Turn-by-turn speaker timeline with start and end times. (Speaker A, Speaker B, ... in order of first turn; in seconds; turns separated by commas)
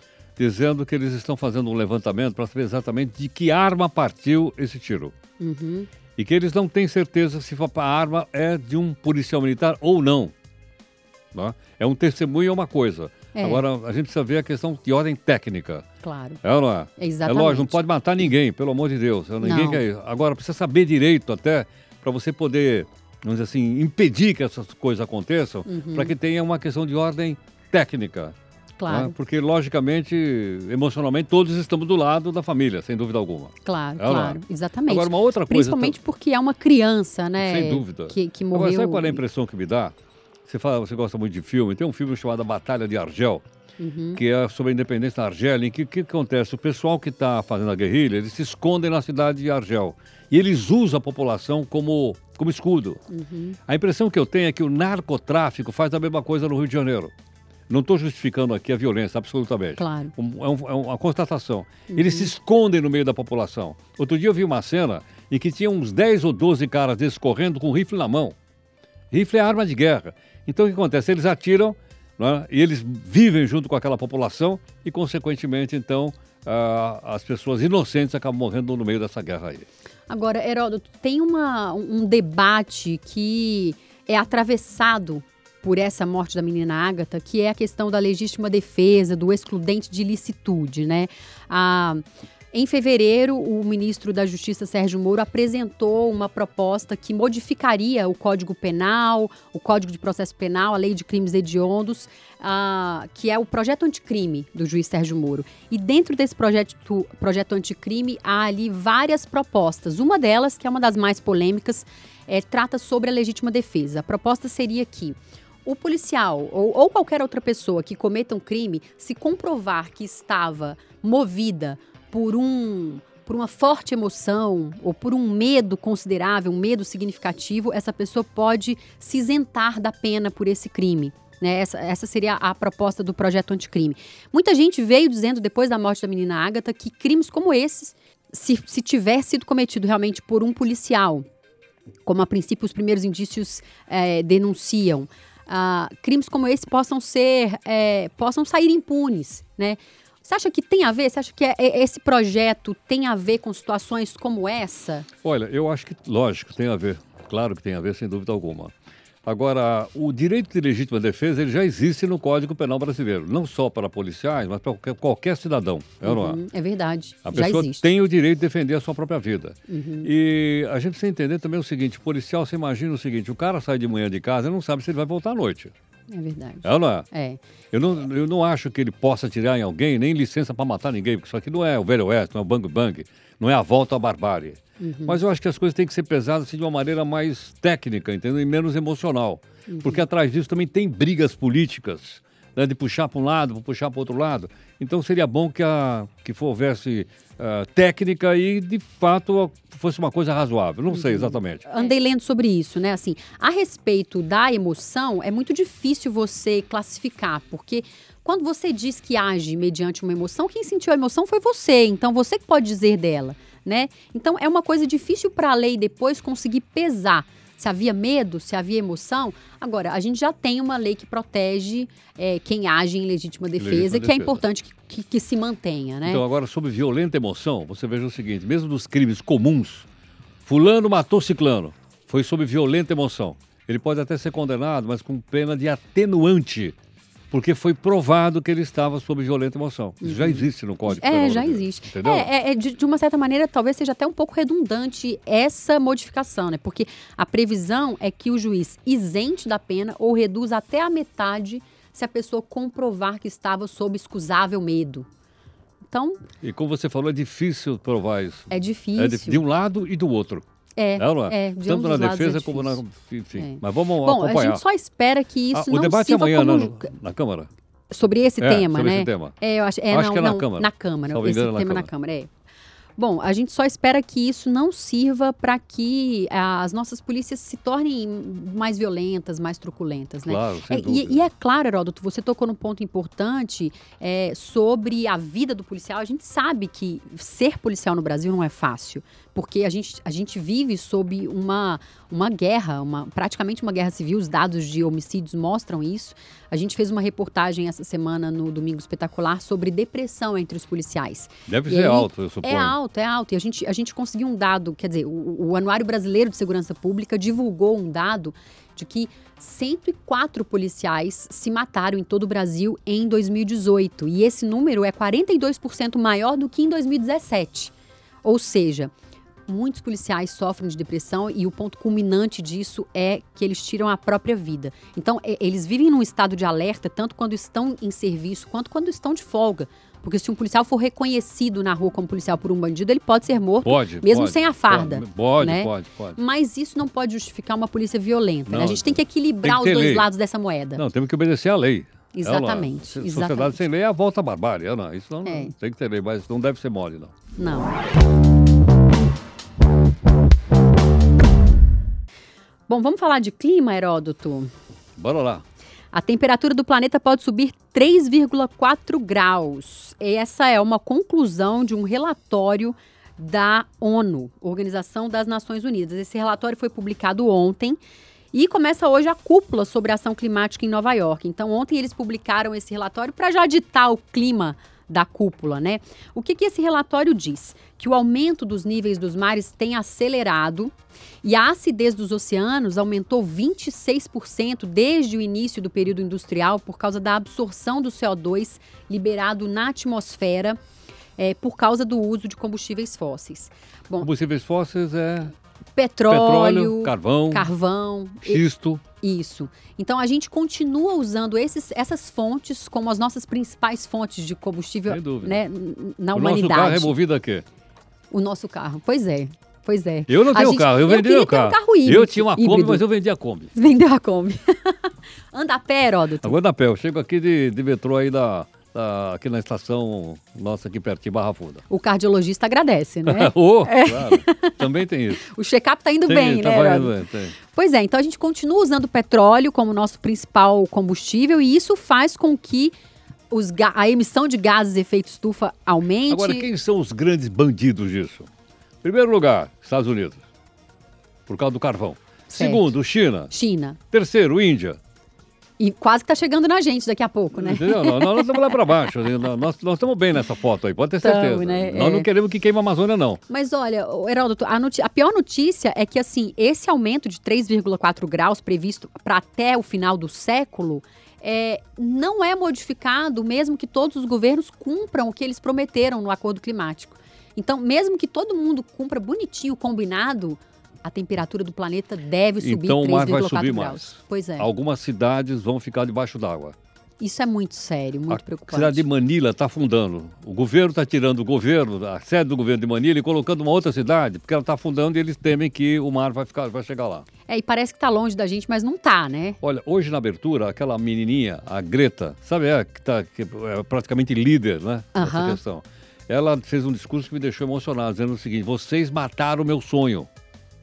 Speaker A: 0.4-5.1, Speaker B: 5.4-5.9, Speaker A: 6.2-10.3, Speaker A: 11.3-15.9, Speaker B: 13.3-13.6, Speaker B: 16.0-16.4, Speaker A: 16.4-28.3, Speaker B: 17.0-17.8, Speaker B: 19.4-19.8, Speaker B: 25.6-26.1, Speaker B: 28.8-29.1, Speaker A: 28.9-36.0, Speaker B: 33.6-39.2, Speaker A: 37.4-39.9, Speaker A: 40.5-43.4, Speaker B: 43.8-44.2, Speaker A: 44.1-53.0, Speaker B: 53.1-53.6, Speaker A: 53.7-57.1, Speaker A: 57.7-68.3, Speaker B: 59.8-60.1, Speaker B: 61.9-62.3, Speaker A: 69.1-79.7, Speaker B: 80.1-141.2, Speaker B: 142.0-155.1, Speaker A: 155.2-158.7, Speaker A: 159.2-166.4, Speaker B: 166.0-167.9, Speaker A: 167.2-175.7, Speaker B: 169.7-170.1, Speaker B: 176.1-177.4, Speaker A: 176.6-177.1, Speaker A: 177.7-201.6, Speaker B: 184.8-185.2, Speaker B: 189.7-190.0, Speaker B: 200.9-226.2, Speaker A: 223.6-224.4, Speaker A: 226.0-229.9, Speaker A: 230.4-236.8, Speaker A: 237.3-242.3, Speaker B: 240.0-255.1, Speaker B: 255.9-256.2, Speaker A: 256.4-260.4, Speaker B: 258.5-259.4, Speaker B: 260.8-262.8, Speaker A: 261.0-264.6, Speaker B: 263.4-266.9, Speaker A: 265.5-267.5, Speaker B: 267.9-272.3, Speaker A: 268.4-269.3, Speaker A: 269.9-271.9, Speaker B: 272.9-318.9, Speaker A: 280.2-281.3, Speaker A: 301.5-302.8, Speaker B: 319.5-340.8, Speaker A: 333.6-336.2, Speaker A: 338.5-340.1, Speaker A: 340.8-347.1, Speaker B: 342.1-343.6, Speaker B: 345.2-345.5, Speaker B: 347.4-347.8, Speaker B: 352.7-354.5, Speaker A: 355.0-355.4, Speaker B: 355.9-367.8, Speaker B: 368.3-390.6, Speaker B: 391.2-394.1, Speaker A: 394.0-395.3, Speaker B: 395.8-398.4, Speaker A: 396.1-397.5, Speaker A: 398.2-398.8, Speaker B: 399.0-407.0, Speaker A: 404.9-405.4, Speaker A: 406.1-407.4, Speaker B: 408.1-412.8, Speaker A: 410.1-413.5, Speaker B: 413.5-416.4, Speaker A: 416.2-421.6, Speaker B: 421.7-424.6, Speaker A: 423.0-425.3, Speaker B: 425.2-432.8, Speaker A: 426.1-427.4, Speaker B: 433.3-436.5, Speaker A: 436.1-438.3, Speaker A: 438.8-440.2, Speaker A: 441.3-443.3, Speaker B: 442.3-442.7, Speaker B: 443.3-443.8, Speaker A: 443.9-444.8, Speaker B: 445.6-448.7, Speaker A: 447.4-453.2, Speaker B: 451.0-452.1, Speaker B: 453.3-474.5, Speaker A: 472.4-476.6, Speaker B: 477.0-478.9, Speaker A: 478.1-487.1, Speaker B: 487.3-489.4, Speaker A: 489.4-500.1, Speaker B: 494.9-495.4